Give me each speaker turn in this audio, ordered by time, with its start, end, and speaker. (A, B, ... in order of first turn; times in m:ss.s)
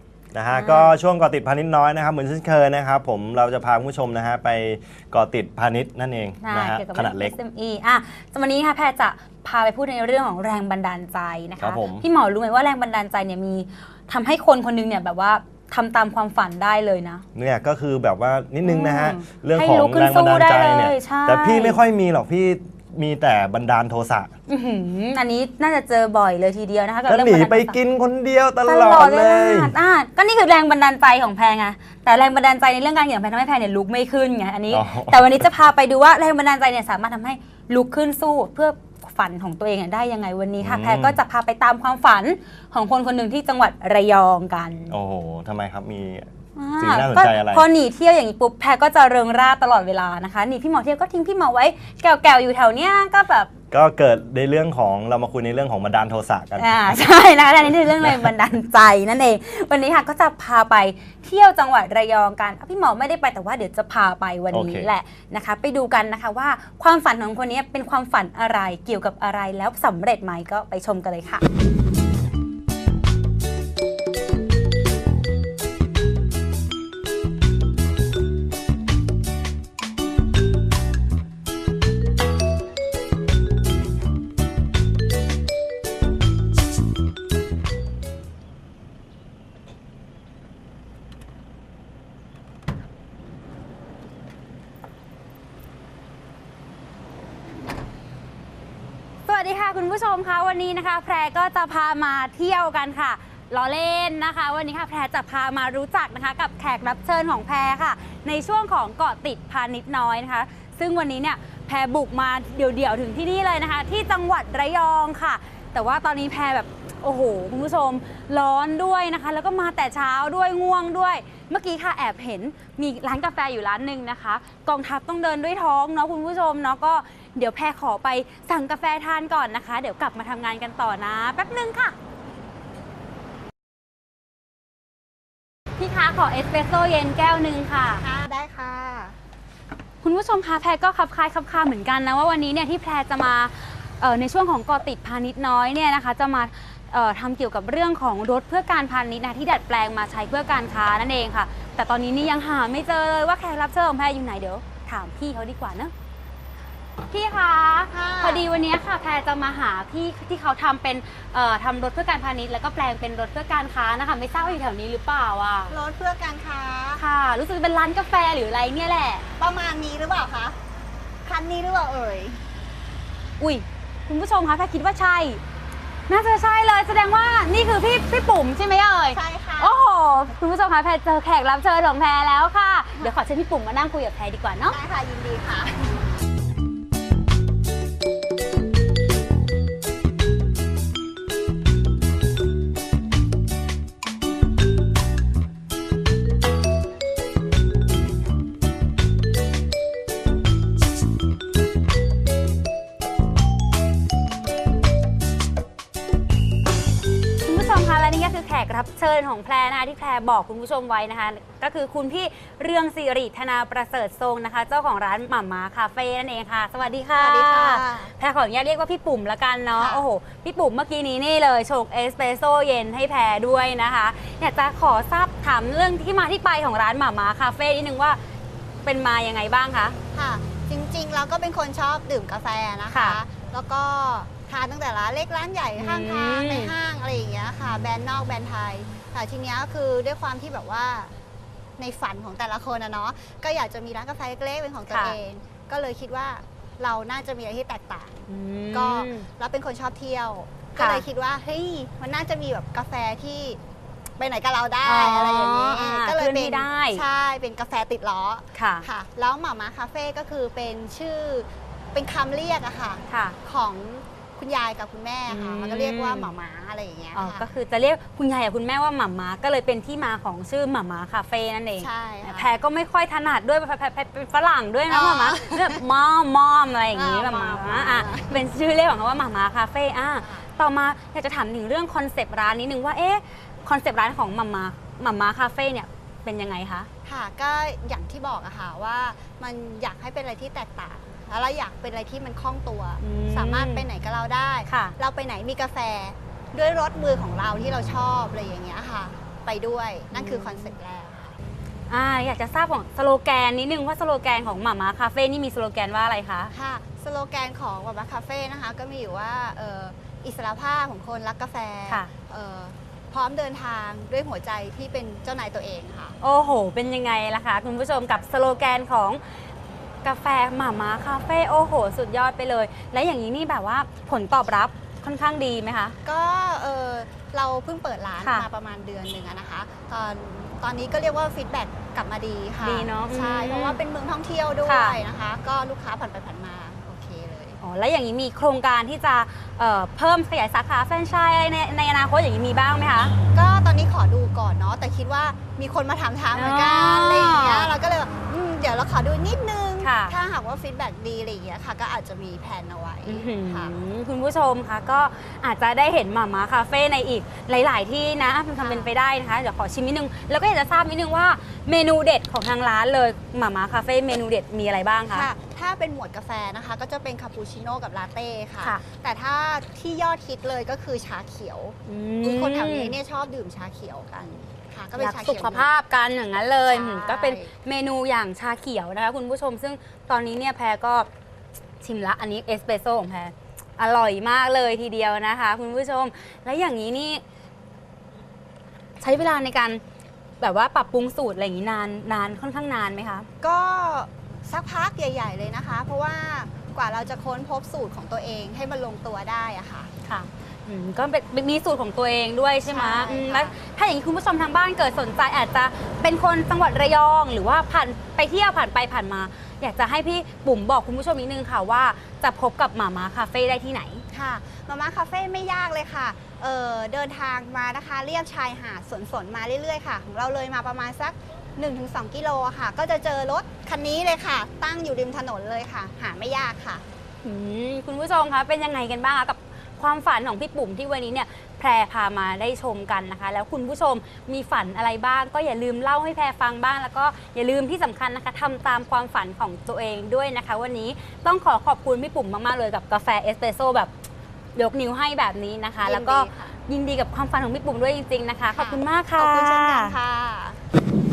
0:00.3-0:07.4 A
0:00.5-0:00.9 B
0:06.4-0:17.2 B
0:11.6-0:12.0 A
0:17.4-0:24.3 A
0:18.6-0:21.8 B
0:24.5-0:27.8 B
0:27.1-0:29.7 A
0:28.7-0:45.0 B
0:34.7-0:35.3 A
0:40.6-0:41.2 A
0:44.9-0:47.7 A
0:46.6-0:53.5 B
0:53.7-0:57.0 A
0:56.6-1:11.4 B
0:58.0-0:58.3 A
1:04.5-1:04.9 A
1:39.2-2:12.0 B
2:15.8-2:18.0 B
2:18.0-2:19.2 C
2:20.0-2:35.9 B
2:37.1-2:45.8 B
2:37.9-2:38.5 C
2:45.7-2:47.0 C
2:47.0-2:49.2 B
2:49.4-2:50.6 C
2:51.2-2:52.4 C
2:53.4-2:55.4 B
2:56.1-3:04.8 B
2:59.1-2:59.8 C
3:04.7-3:06.0 C
3:27.4-3:48.2 B
3:37.1-3:38.1 C
3:39.8-3:40.0 C
3:48.8-3:50.0 B
3:50.1-4:01.1 C
3:52.9-3:53.2 B
3:55.8-3:56.7 B
4:01.8-4:13.6 C
4:04.9-4:05.2 B
4:08.3-4:09.2 B
4:10.8-4:11.0 B
4:14.2-4:27.5 C
4:14.8-4:17.0 B
4:18.5-4:18.9 B
4:23.1-4:23.4 B
4:25.3-4:26.3 B
4:27.1-4:46.9 B
4:31.8-4:32.6 C
4:34.9-4:35.8 C
4:36.9-4:38.4 C
4:40.2-4:40.5 C
4:47.0-5:01.3 C
4:53.0-4:53.8 B
4:54.7-4:54.9 B
5:00.1-5:00.7 B
5:01.9-5:06.5 B
5:06.5-5:16.2 C
5:16.2-5:19.2 B
5:20.0-5:26.0 B
5:26.0-5:37.6 C
5:28.2-5:28.5 B
5:32.6-5:33.8 B
5:34.6-5:35.0 B
5:37.6-5:43.2 B
5:43.3-5:53.7 C
5:46.3-5:47.7 B
5:49.8-5:50.2 B
5:53.1-6:05.3 B
5:58.6-5:58.9 C
6:05.1-6:15.7 C
6:11.9-6:13.0 B
6:15.0-6:21.1 B
6:16.7-6:17.5 C
6:21.8-6:27.2 B
6:29.0-6:29.8 B
6:30.4-6:33.3 B
6:33.4-6:39.9 C
6:40.0-6:54.0 B
6:42.7-6:43.6 C
6:54.1-7:06.8 C
7:07.2-7:23.9 B
7:24.6-7:30.0 B
7:25.8-7:26.6 C
7:28.6-7:30.6 C